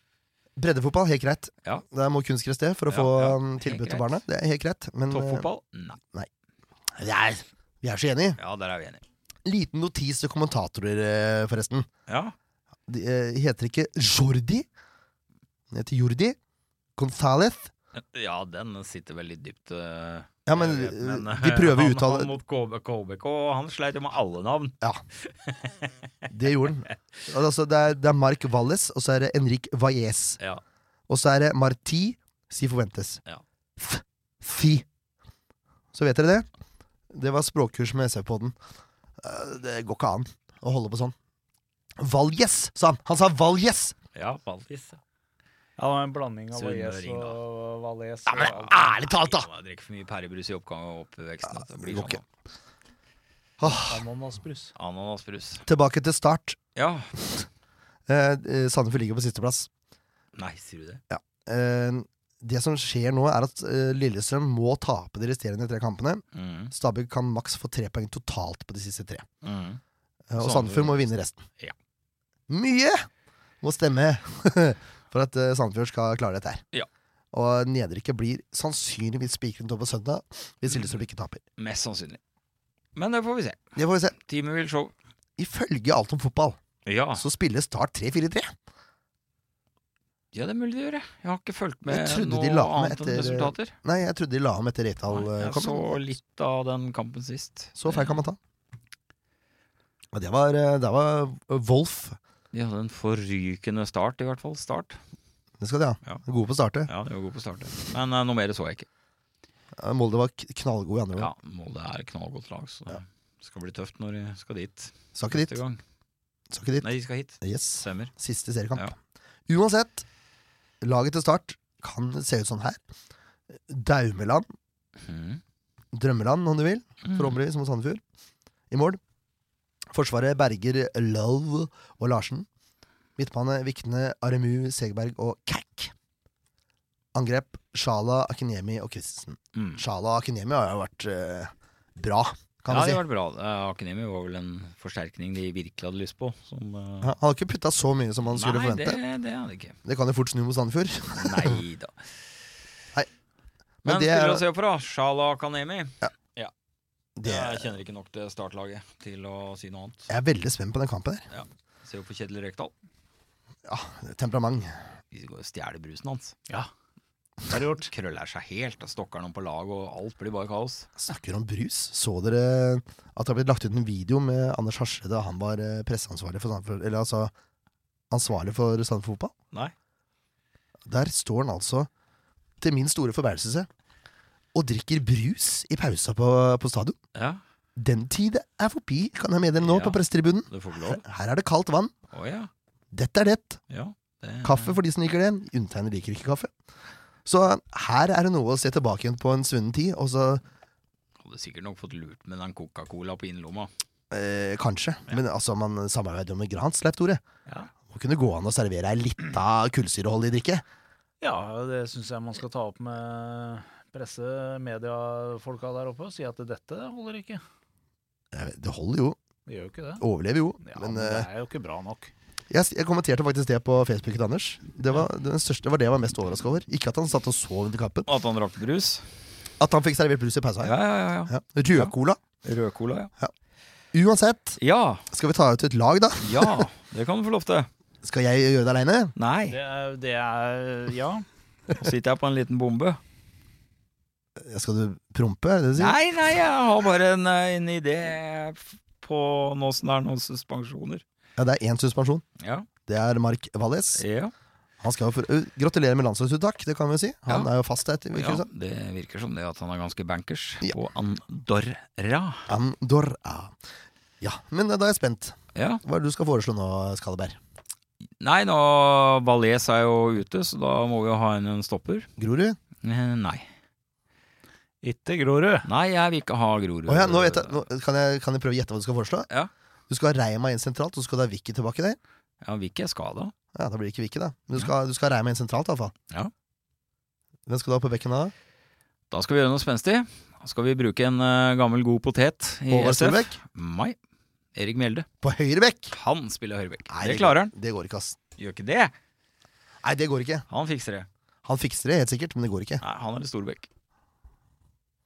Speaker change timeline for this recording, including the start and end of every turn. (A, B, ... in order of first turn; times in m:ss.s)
0:00.6-0:05.5 A
0:02.9-0:04.2 B
0:05.1-0:06.0 B
0:06.9-0:08.4 A
0:08.4-0:09.0 B
0:09.4-0:11.9 A
0:12.1-0:12.4 B
0:12.9-0:14.7 A
0:15.7-0:16.4 A
0:17.0-0:17.7 A
0:18.0-0:25.9 B
0:20.5-0:22.3 A
0:26.3-0:30.4 A
0:31.1-0:33.2 A
0:33.8-0:34.8 A
0:35.9-0:36.5 A
0:37.1-0:38.6 A
0:39.2-0:41.2 A
0:42.0-0:44.0 A
0:44.2-0:45.0 B
0:45.8-0:48.8 C
0:46.5-0:47.4 B
0:48.3-0:49.5 A
0:48.4-0:52.2 B
0:51.5-0:52.2 A
0:53.6-0:54.0 A
0:53.6-0:54.7 C
0:54.8-0:55.6 B
0:55.7-0:56.6 A
0:56.8-0:57.1 B
0:57.2-0:57.5 A
0:58.1-0:59.7 A
1:00.4-1:01.0 B
1:01.1-1:09.3 A
1:06.3-1:06.7 B
1:09.4-1:09.8 B
1:10.3-1:11.4 A
1:10.4-1:11.8 B
1:12.5-1:13.1 A
1:13.6-1:16.6 A
1:17.3-1:21.4 A
1:21.6-1:22.2 B
1:23.0-1:23.6 B
1:23.8-1:24.2 A
1:24.2-1:24.9 B
1:25.4-1:26.6 A
1:26.9-1:27.3 B
1:27.2-1:28.5 A
1:30.3-1:33.8 B
1:31.9-1:36.0 A
1:35.1-1:38.2 B
1:37.8-1:38.4 A
1:40.1-1:42.2 A
1:42.5-1:45.0 B
1:45.6-1:46.9 A
1:46.9-1:48.9 B
1:49.8-1:51.3 A
1:51.2-1:55.8 B
1:55.2-1:55.6 A
1:56.5-1:56.9 A
1:56.8-1:58.1 B
1:57.4-1:58.9 A
1:59.5-2:00.1 A
2:00.8-2:02.8 A
2:03.5-2:04.4 A
2:05.0-2:05.4 B
2:05.9-2:08.0 A
2:07.0-2:07.4 B
2:08.7-2:09.0 A
2:09.9-2:12.5 A
2:13.2-2:15.9 A
2:17.1-2:23.0 A
2:19.6-2:19.8 B
2:22.7-2:27.1 B
2:27.0-2:29.0 A
2:28.3-2:29.8 B
2:29.8-2:31.6 A
2:31.2-2:32.1 B
2:33.8-2:34.4 A
2:33.8-2:36.5 B
2:37.2-2:37.6 A
2:37.2-2:40.1 B
2:40.1-2:41.3 A
2:41.3-2:42.7 B
2:43.7-2:44.8 A
2:45.1-2:46.4 B
2:47.5-2:47.9 C
2:47.8-2:50.9 B
2:51.0-2:57.3 A
2:58.1-2:59.3 A
3:00.9-3:01.9 A
3:02.6-3:03.7 A
3:04.5-3:07.0 A
3:07.1-3:07.4 B
3:07.8-3:11.9 A
3:09.6-3:11.0 B
3:12.1-3:12.5 B
3:12.9-3:13.6 A
3:13.7-3:14.8 B
3:14.4-3:16.5 A
3:17.2-3:20.4 A
3:21.2-3:23.7 B
3:24.1-3:27.2 A
3:27.9-3:30.6 A
3:31.2-3:37.4 C
3:38.3-3:39.2 A
3:39.5-3:40.0 C
3:40.0-3:41.3 A
3:40.6-3:42.1 C
3:42.5-3:48.1 A
3:48.1-3:49.1 B
3:49.6-3:50.8 A
3:50.6-3:51.9 B
3:51.3-3:52.2 A
3:52.4-3:53.1 B
3:53.9-3:54.6 A
3:54.6-3:55.1 B
3:55.1-3:56.7 A
3:56.2-3:57.7 B
3:58.0-3:59.1 A
3:59.2-3:59.6 B
3:59.5-4:01.2 C
4:01.8-4:03.0 B
4:04.4-4:06.0 A
4:05.8-4:11.0 B
4:11.4-4:12.2 A
4:12.4-4:12.7 B
4:12.9-4:14.0 A
4:14.0-4:14.3 B
4:14.8-4:18.5 A
4:18.1-4:22.5 B
4:22.5-4:23.6 A
4:24.2-4:27.4 A
4:25.6-4:25.8 B
4:28.2-4:32.1 B
4:32.2-4:32.6 A
4:32.8-4:33.5 B
4:34.8-4:35.7 C
4:35.6-4:37.6 B
4:36.9-4:39.3 A
4:39.9-4:42.0 A
4:42.4-4:43.3 B
4:43.6-4:45.9 A
4:47.5-4:48.3 A
4:49.1-4:54.0 B
4:52.7-4:53.4 A
4:54.6-4:55.1 B
4:55.2-4:55.9 A
4:55.9-4:57.5 B
4:56.9-4:58.2 A
4:58.4-4:58.9 B
4:59.8-5:00.5 A
5:00.5-5:01.1 B
5:01.4-5:02.8 A
5:02.8-5:03.7 B